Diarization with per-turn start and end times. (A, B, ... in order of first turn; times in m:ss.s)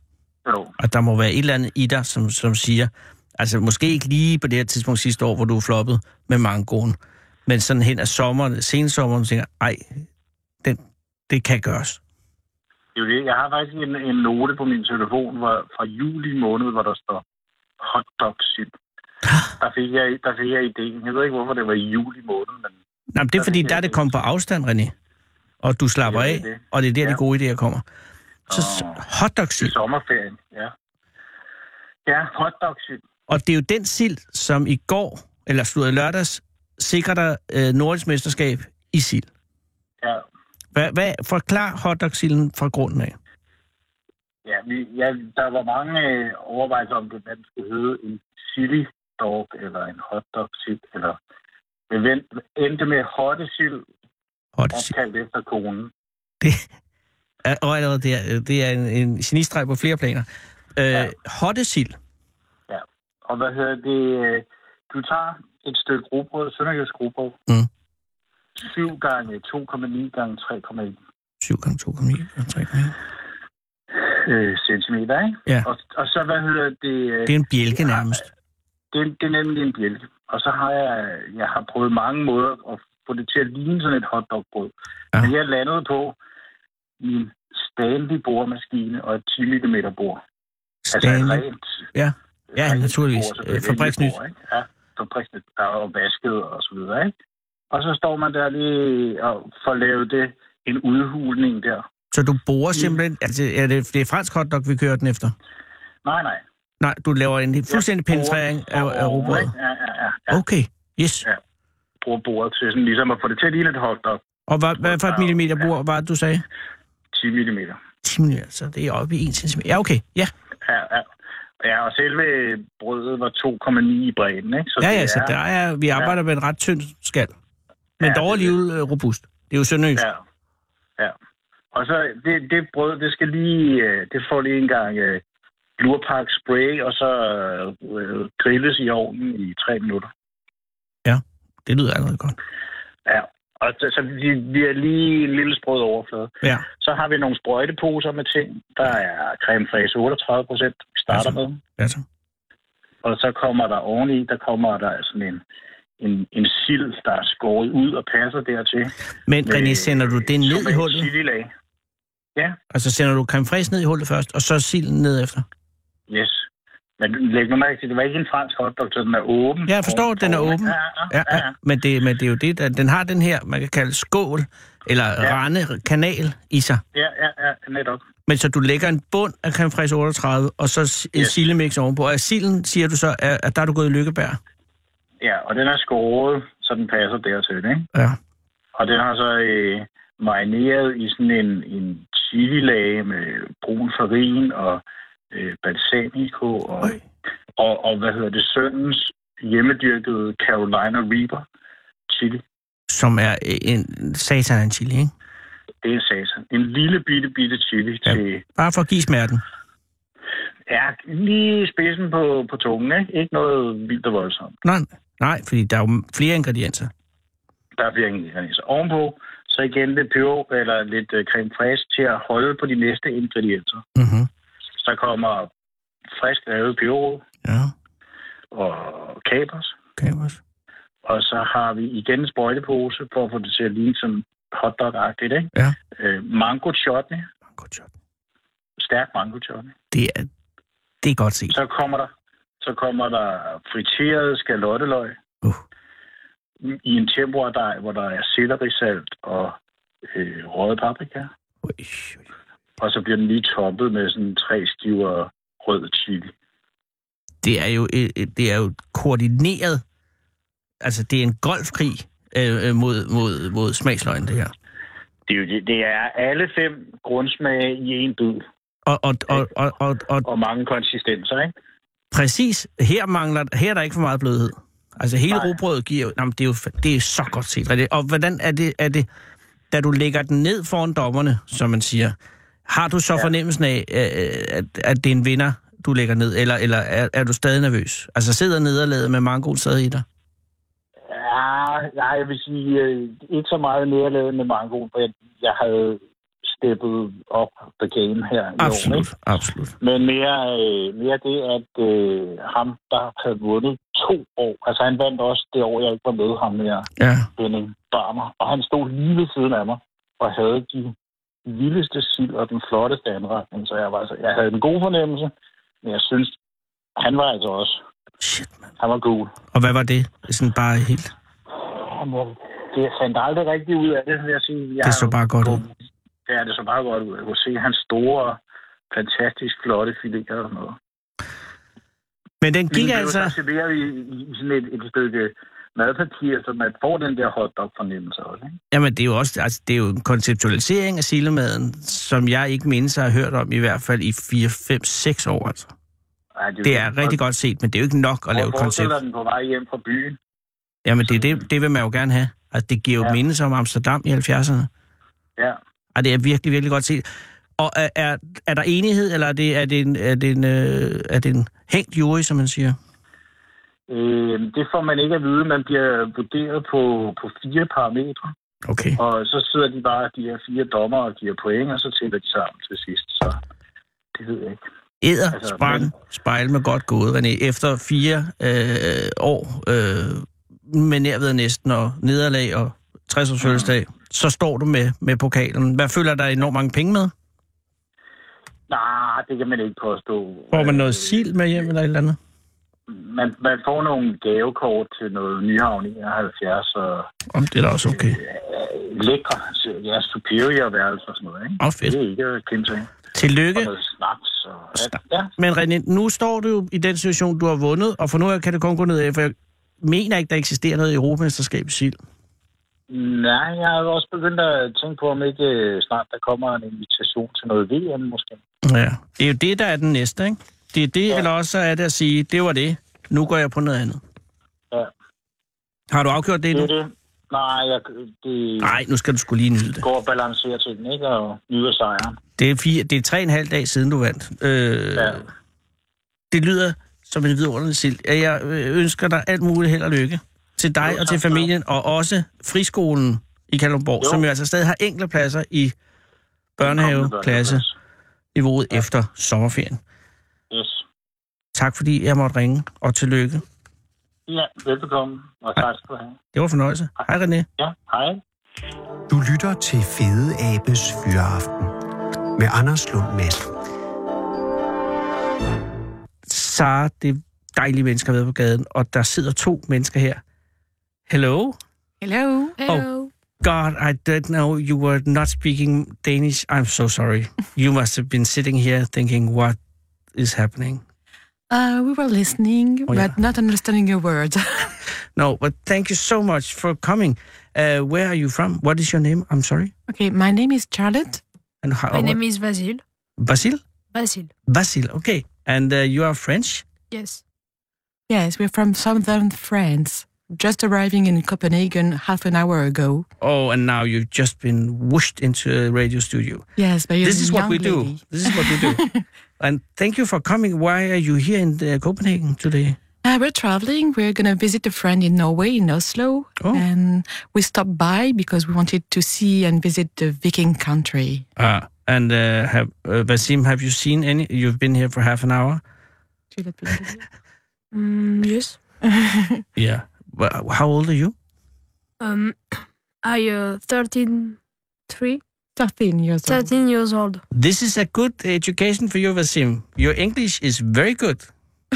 0:00.5-0:00.7 A
0:00.8-0:10.0 B
0:10.6-0:12.0 B
0:13.0-0:17.2 A
0:17.8-0:18.7 A
0:19.6-0:22.8 A
0:23.1-0:24.9 B
0:23.4-0:24.2 A
0:25.6-0:27.8 B
0:26.0-0:27.2 A
0:28.5-0:29.0 A
0:28.5-0:29.7 B
0:29.6-0:30.7 A
0:32.1-0:33.0 A
0:33.3-0:39.3 B
0:40.8-0:43.2 B
0:44.4-0:51.2 A
0:51.9-0:53.8 A
0:54.6-0:54.9 B
0:54.7-0:55.9 A
0:57.4-1:02.0 B
1:02.7-1:07.4 A
1:08.6-1:11.0 A
1:11.4-1:13.0 B
1:14.0-1:18.2 A
1:17.3-1:18.2 B
1:18.9-1:26.2 A
1:27.0-1:30.2 A
1:30.9-1:34.2 B
1:30.9-1:31.6 A
1:32.5-1:37.1 A
1:37.7-1:41.8 A
1:42.1-1:45.4 B
1:46.0-1:46.4 A
1:46.8-1:49.5 B
1:47.7-1:50.4 A
1:50.3-1:51.3 B
1:52.0-1:54.2 A
1:54.5-1:56.4 B
1:54.8-1:55.7 A
1:57.1-1:57.8 A
1:58.0-2:00.3 B
2:00.6-2:01.1 A
2:01.6-2:05.3 A
2:04.8-2:07.3 B
2:08.0-2:08.6 A
2:08.0-2:10.0 B
2:10.0-2:10.2 A
2:11.7-2:15.2 A
2:15.8-2:20.1 A
2:21.0-2:22.4 B
2:23.1-2:31.6 A
2:31.1-2:32.0 B
2:33.0-2:35.4 A
2:36.0-2:38.9 A
2:39.3-2:41.1 B
2:39.4-2:41.5 A
2:42.7-2:45.4 B
2:46.1-2:46.4 A
2:47.0-2:51.5 A
2:49.7-2:56.8 B
2:56.9-2:58.0 A
2:58.3-3:04.4 B
3:01.2-3:01.4 A
3:05.2-3:07.9 A
3:08.8-3:17.0 A
3:17.6-3:21.5 A
3:22.1-3:22.4 A
3:22.9-3:25.1 B
3:25.8-3:28.4 A
3:28.1-3:29.4 B
3:30.7-3:34.5 A
3:34.6-3:36.9 B
3:37.8-3:43.8 A
3:44.0-3:44.3 B
3:44.8-3:45.5 A
3:46.1-3:47.2 A
3:47.4-3:47.7 B
3:48.5-3:49.8 A
3:50.0-3:50.4 B
3:51.0-3:57.3 A
3:57.5-3:57.9 B
3:58.8-3:59.7 A
3:59.9-4:00.3 B
4:01.0-4:01.6 B
4:01.5-4:05.2 A
4:06.6-4:11.3 A
4:11.6-4:12.2 B
4:12.8-4:16.3 A
4:17.4-4:19.8 B
4:20.8-4:24.5 B
4:25.3-4:28.4 A
4:28.9-4:30.2 B
4:30.2-4:31.5 A
4:32.1-4:39.1 B
4:35.3-4:35.6 A
4:39.7-4:42.2 B
4:42.7-4:50.0 B
4:51.1-4:59.1 A
4:58.6-4:59.7 B
4:59.8-5:15.3 A
5:07.0-5:07.3 B
5:15.8-5:16.4 A
5:17.0-5:17.8 A
5:18.2-5:18.6 B
5:18.8-5:19.4 A
5:19.5-5:21.1 B
5:21.6-5:25.7 A
5:24.8-5:25.6 B
5:26.3-5:28.4 A
5:28.9-5:30.8 A
5:32.4-5:33.4 B
5:32.7-5:38.6 A
5:38.7-5:45.7 B
5:46.4-5:47.2 A
5:46.6-5:49.0 B
5:48.3-5:50.2 A
5:50.8-5:54.7 B
5:56.0-5:57.1 B
5:57.6-6:02.8 B
6:03.9-6:08.3 A
6:08.7-6:09.0 B
6:09.0-6:13.4 A
6:14.2-6:14.6 A
6:15.0-6:27.1 B
6:15.3-6:15.9 A
6:23.4-6:23.7 A
6:28.7-6:31.6 A
6:30.5-6:32.2 B
6:32.9-6:37.1 A
6:37.3-6:38.2 B
6:37.9-6:43.0 A
6:41.6-6:42.0 B
6:43.1-6:43.7 B
6:43.6-6:45.3 A
6:45.4-6:52.0 B
6:52.9-6:58.4 A
6:58.6-7:04.0 B
7:05.9-7:06.7 B
7:06.5-7:08.8 A
7:08.6-7:09.8 B
7:09.8-7:12.2 A
7:12.4-7:15.2 B
7:15.0-7:15.3 A
7:16.3-7:25.8 B
7:20.8-7:21.5 A
7:26.6-7:27.6 B
7:26.6-7:27.7 A
7:28.4-7:29.8 B
7:30.5-7:30.8 A
7:31.6-7:33.4 B
7:34.3-7:36.2 A
7:36.3-7:37.5 B
7:37.6-7:38.2 A
7:39.1-7:41.7 C
7:42.4-7:43.5 C
7:46.3-7:50.2 B
7:51.1-7:51.6 B
7:52.0-7:53.1 D
7:53.4-7:59.6 B
8:00.2-8:00.8 B
8:01.5-8:04.8 D
8:05.2-8:09.7 B
8:09.9-8:11.2 D
8:11.6-8:12.2 B
8:11.9-8:12.8 E
8:13.2-8:13.6 B
8:13.9-8:14.3 E
8:14.5-8:16.6 B
8:16.9-8:17.2 E
8:18.1-8:23.1 D
8:23.2-8:26.5 B
8:26.6-8:29.0 D
8:27.0-8:28.8 B
8:29.4-8:32.8 B
8:33.0-8:41.3 D
8:41.4-8:45.6 B
8:46.3-8:47.0 D
8:47.7-8:48.6 E
8:48.8-8:49.4 D
8:49.6-8:51.2 B
8:52.0-8:55.2 E
8:55.6-8:56.5 D
8:56.3-8:57.2 E
8:57.3-9:01.2 B